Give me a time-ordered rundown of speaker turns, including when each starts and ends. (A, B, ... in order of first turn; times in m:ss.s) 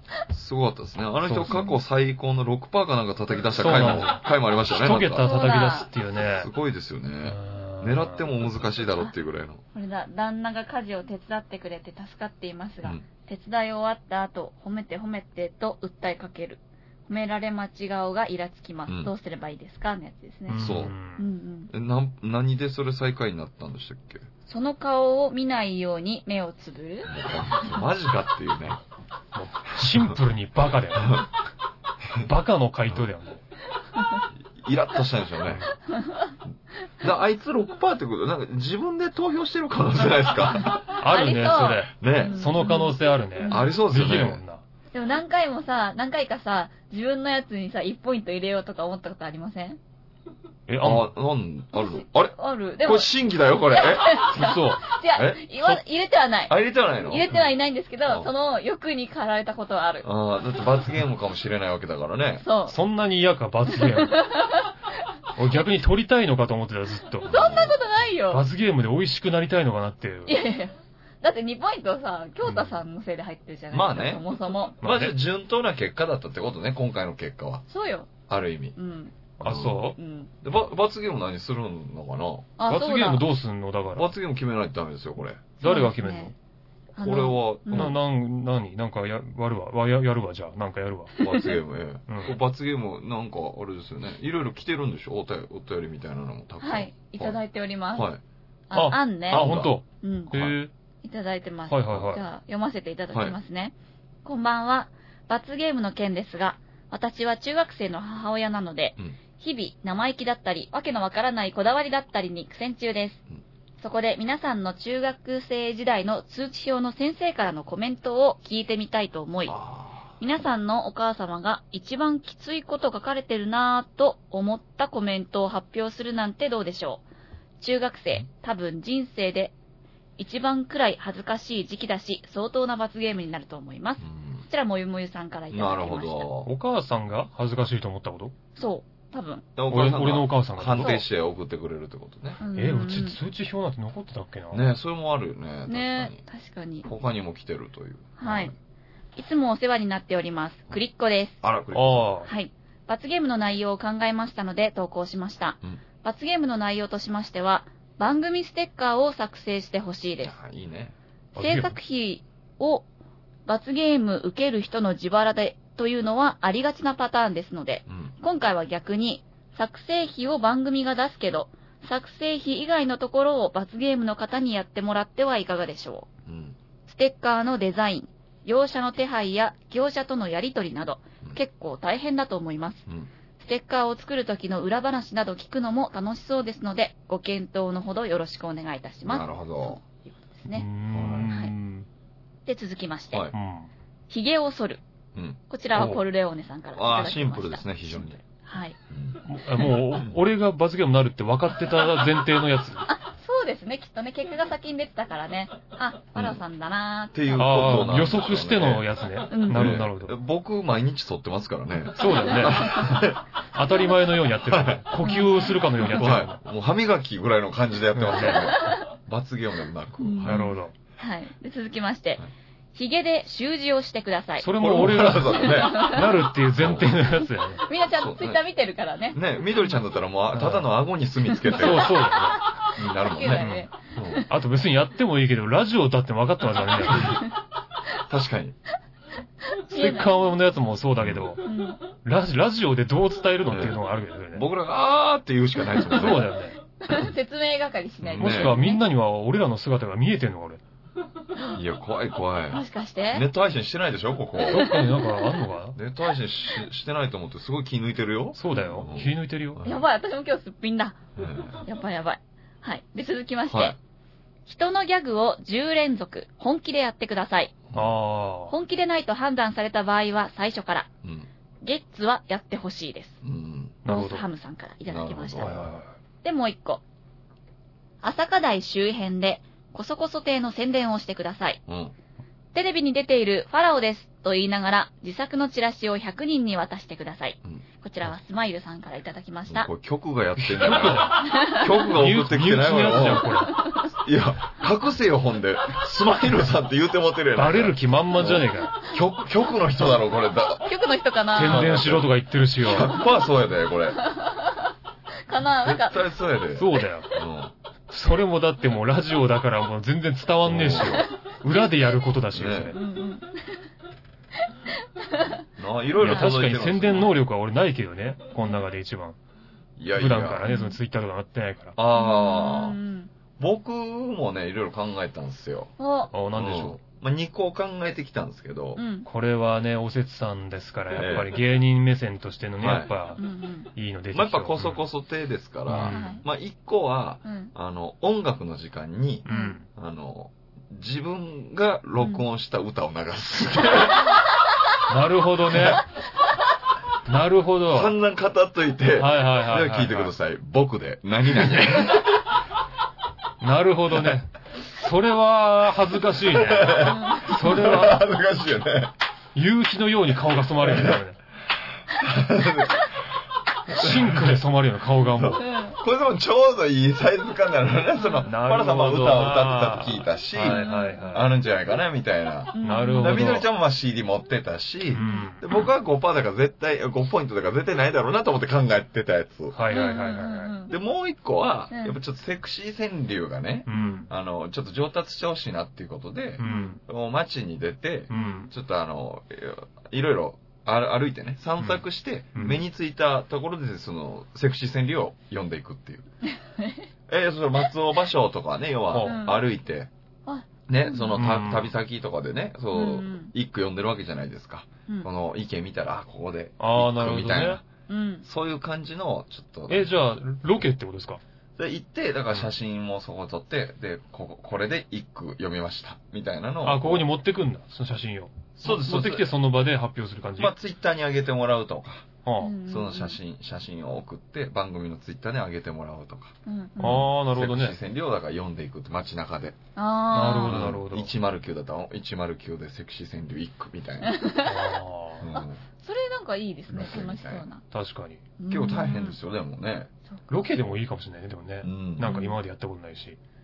0:00.3-0:05.3 A
0:01.2-0:01.7 B
0:03.6-0:06.5 B
0:05.2-0:05.9 C
0:06.2-0:09.6 A
0:07.2-0:08.4 B
0:09.7-0:21.7 C
0:18.9-0:19.1 A
0:20.5-0:21.2 B
0:20.6-0:20.9 A
0:21.7-0:24.3 A
0:24.5-0:27.2 C
0:27.1-0:28.8 A
0:29.4-0:31.3 B
0:32.2-0:33.4 B
0:34.5-0:35.7 A
0:37.0-0:40.8 A
0:40.7-0:43.7 C
0:40.9-0:44.6 B
0:42.0-0:42.6 A
0:43.4-0:44.4 A
0:44.9-0:49.8 C
0:50.7-0:51.1 B
0:50.8-0:54.6 A
0:51.8-0:53.1 C
0:53.7-1:00.1 C
0:54.3-0:54.8 B
0:55.1-0:55.8 A
0:56.5-0:57.3 A
0:58.0-0:58.3 A
1:00.0-1:02.4 A
1:02.4-1:02.8 C
1:02.7-1:04.2 B
1:03.7-1:04.7 C
1:05.4-1:07.3 B
1:07.3-1:07.8 A
1:07.3-1:08.4 C
1:08.3-1:10.4 B
1:10.3-1:14.8 C
1:12.4-1:12.7 B
1:13.7-1:14.2 A
1:14.8-1:17.6 A
1:14.8-1:15.2 B
1:17.7-1:18.2 C
1:18.3-1:18.8 A
1:18.8-1:20.3 C
1:19.4-1:20.0 B
1:19.4-1:19.8 A
1:20.4-1:22.5 A
1:22.6-1:23.3 C
1:22.7-1:24.1 B
1:24.0-1:25.5 A
1:25.6-1:26.3 B
1:25.6-1:26.3 C
1:27.0-1:28.0 C
1:27.0-1:28.0 A
1:27.7-1:31.2 B
1:31.2-1:31.6 C
1:31.2-1:37.4 A
1:32.1-1:32.4 B
1:36.6-1:38.1 C
1:37.9-1:38.2 A
1:38.7-1:40.3 C
1:38.7-1:40.7 B
1:39.3-1:39.8 A
1:40.3-1:40.6 A
1:41.0-1:43.7 C
1:41.7-1:42.2 B
1:43.1-1:43.4 A
1:44.2-1:53.2 C
1:53.8-1:59.6 C
1:59.5-2:00.1 A
2:00.2-2:07.0 C
2:07.6-2:09.6 C
2:10.2-2:16.3 C
2:14.0-2:14.4 A
2:15.5-2:16.5 A
2:16.4-2:18.3 B
2:18.6-2:19.5 C
2:19.6-2:22.4 A
2:19.7-2:21.0 B
2:20.8-2:21.0 C
2:22.4-2:23.2 C
2:22.6-2:24.6 B
2:24.5-2:26.2 A
2:25.7-2:26.9 C
2:26.8-2:28.5 A
2:28.2-2:28.5 C
2:29.2-2:31.4 C
2:31.4-2:32.1 A
2:31.7-2:32.3 B
2:32.3-2:40.4 C
2:40.2-2:41.0 A
2:41.4-2:41.8 B
2:41.4-2:42.9 C
2:43.5-2:56.1 C
2:56.3-2:56.6 A
2:56.9-3:02.9 C
3:03.4-3:10.7 C
3:09.0-3:09.8 A
3:10.5-3:11.9 B
3:10.9-3:11.3 A
3:11.2-3:11.5 C
3:12.5-3:13.3 C
3:13.3-3:13.7 B
3:14.1-3:14.8 C
3:15.5-3:18.8 C
3:15.7-3:16.0 B
3:16.8-3:18.2 A
3:18.9-3:19.2 A
3:19.2-3:22.9 B
3:22.9-3:27.9 C
3:26.2-3:26.4 A
3:27.1-3:28.9 A
3:27.4-3:30.2 B
3:29.3-3:29.8 C
3:29.5-3:33.2 A
3:32.0-3:36.4 B
3:32.4-3:33.0 C
3:34.4-3:34.8 A
3:35.0-3:35.5 C
3:35.9-3:40.5 A
3:38.0-3:38.5 B
3:38.3-3:38.9 C
3:40.0-3:42.2 C
3:40.2-3:40.7 B
3:42.8-3:44.5 C
3:44.4-3:47.6 B
3:44.6-3:46.9 A
3:45.2-3:46.2 C
3:47.6-3:49.2 C
3:48.0-3:48.4 A
3:49.1-3:52.0 A
3:50.3-3:50.7 B
3:51.3-3:54.3 C
3:51.5-3:52.4 B
3:52.8-3:54.2 A
3:54.3-3:57.2 B
3:56.9-3:57.2 C
3:58.1-3:58.6 A
3:59.5-4:00.4 C
3:59.7-4:01.5 B
4:01.0-4:01.3 A
4:01.4-4:01.8 C
4:02.0-4:04.4 B
4:03.5-4:03.8 A
4:04.3-4:06.3 A
4:05.9-4:06.6 B
4:06.8-4:08.8 C
4:08.0-4:08.6 A
4:08.2-4:10.6 B
4:11.4-4:11.6 C
4:11.5-4:14.7 A
4:12.5-4:13.3 C
4:14.4-4:14.9 C
4:14.4-4:15.8 B
4:15.8-4:19.8 A
4:18.4-4:19.6 B
4:19.6-4:21.0 C
4:21.2-4:21.6 A
4:21.6-4:23.8 C
4:23.5-4:23.8 A
4:24.5-4:27.6 C
4:27.7-4:28.5 B
4:28.5-4:30.9 C
4:31.0-4:31.3 A
4:31.6-4:33.2 C
4:33.2-4:33.8 A
4:33.8-4:34.2 B
4:33.9-4:35.6 C
4:34.9-4:35.8 A
4:35.4-4:35.9 B
4:36.2-4:36.8 C
4:38.0-4:41.6 C
4:41.7-4:42.0 A
4:42.5-4:49.7 C
4:49.5-5:00.7 A
4:50.4-4:53.6 B
4:51.2-4:51.7 C
4:53.5-4:53.9 C
4:57.4-4:58.8 B
5:00.6-5:01.8 C
5:01.3-5:03.0 B
5:01.4-5:04.0 A
5:04.0-5:04.7 C
5:05.3-5:06.1 C
5:05.6-5:07.5 A
5:06.6-5:07.1 B
5:07.9-5:12.8 B
5:10.4-5:11.1 A
5:12.3-5:12.8 A
5:12.7-5:13.7 C
5:14.4-5:15.4 C
5:15.6-5:17.1 A
5:16.0-5:19.2 B
5:19.8-5:20.5 A
5:20.0-5:21.8 B
5:20.5-5:20.8 C
5:21.8-5:22.8 A
5:21.9-5:23.1 C
5:23.4-5:25.7 A
5:25.8-5:26.1 C
5:26.1-5:26.8 B
5:26.3-5:28.8 A
5:28.8-5:29.1 C
5:29.1-5:33.2 B
5:30.9-5:31.4 A
5:32.6-5:32.9 A
5:33.2-5:33.7 C
5:33.8-5:34.8 B
5:34.1-5:44.2 A
5:35.7-5:36.2 B
5:35.8-5:36.2 C
5:37.2-5:37.5 C
5:39.3-5:39.7 B
5:39.3-5:39.6 C
5:42.0-5:42.2 C
5:44.9-5:45.8 B
5:45.5-5:45.8 A
5:47.1-5:47.9 B
5:47.7-5:52.2 A
5:49.0-5:50.1 B
5:53.4-5:58.0 B
5:56.3-5:58.9 A
5:56.8-5:57.3 C
5:59.4-6:01.2 B
6:00.6-6:01.0 A
6:01.9-6:02.9 A
6:03.7-6:05.4 B
6:03.7-6:04.4 A
6:05.1-6:19.6 A
6:05.4-6:05.8 C
6:08.3-6:11.3 B
6:10.5-6:11.2 C
6:12.5-6:13.3 C
6:12.6-6:13.5 B
6:14.9-6:15.4 B
6:15.0-6:15.6 C
6:19.5-6:20.5 B
6:19.7-6:20.7 C
6:20.7-6:36.1 A
6:21.7-6:22.0 C
6:23.7-6:24.1 B
6:23.7-6:24.1 C
6:26.4-6:26.8 B
6:26.4-6:26.8 C
6:28.1-6:28.5 B
6:28.1-6:28.5 C
6:32.4-6:32.6 B
6:36.6-6:36.8 C
6:37.1-6:39.9 A
6:38.9-6:39.2 B
6:39.0-6:39.4 C
6:40.3-6:41.2 C
6:40.7-6:47.6 A
6:41.2-6:41.7 B
6:42.7-6:43.3 C
6:46.6-6:47.6 B
6:47.9-6:48.2 C
6:48.2-6:50.0 A
6:49.7-6:51.2 B
6:51.6-6:57.1 A
6:56.6-7:00.5 B
6:58.6-6:59.3 A
7:00.4-7:02.1 A
7:02.2-7:02.5 B
7:02.4-7:03.2 C
7:02.7-7:06.4 A
7:06.5-7:07.1 C
7:06.8-7:07.8 B
7:06.9-7:09.6 A
7:09.8-7:10.7 C
7:10.1-7:11.1 B
7:10.4-7:14.2 A
7:14.0-7:14.7 C
7:14.4-7:15.3 B
7:15.2-7:15.6 A
7:15.4-7:17.6 C
7:16.7-7:17.4 A
7:17.7-7:18.2 B
7:18.4-7:19.2 C
7:18.5-7:19.9 A
7:20.3-7:23.2 B
7:21.6-7:22.1 A
7:22.0-7:22.4 C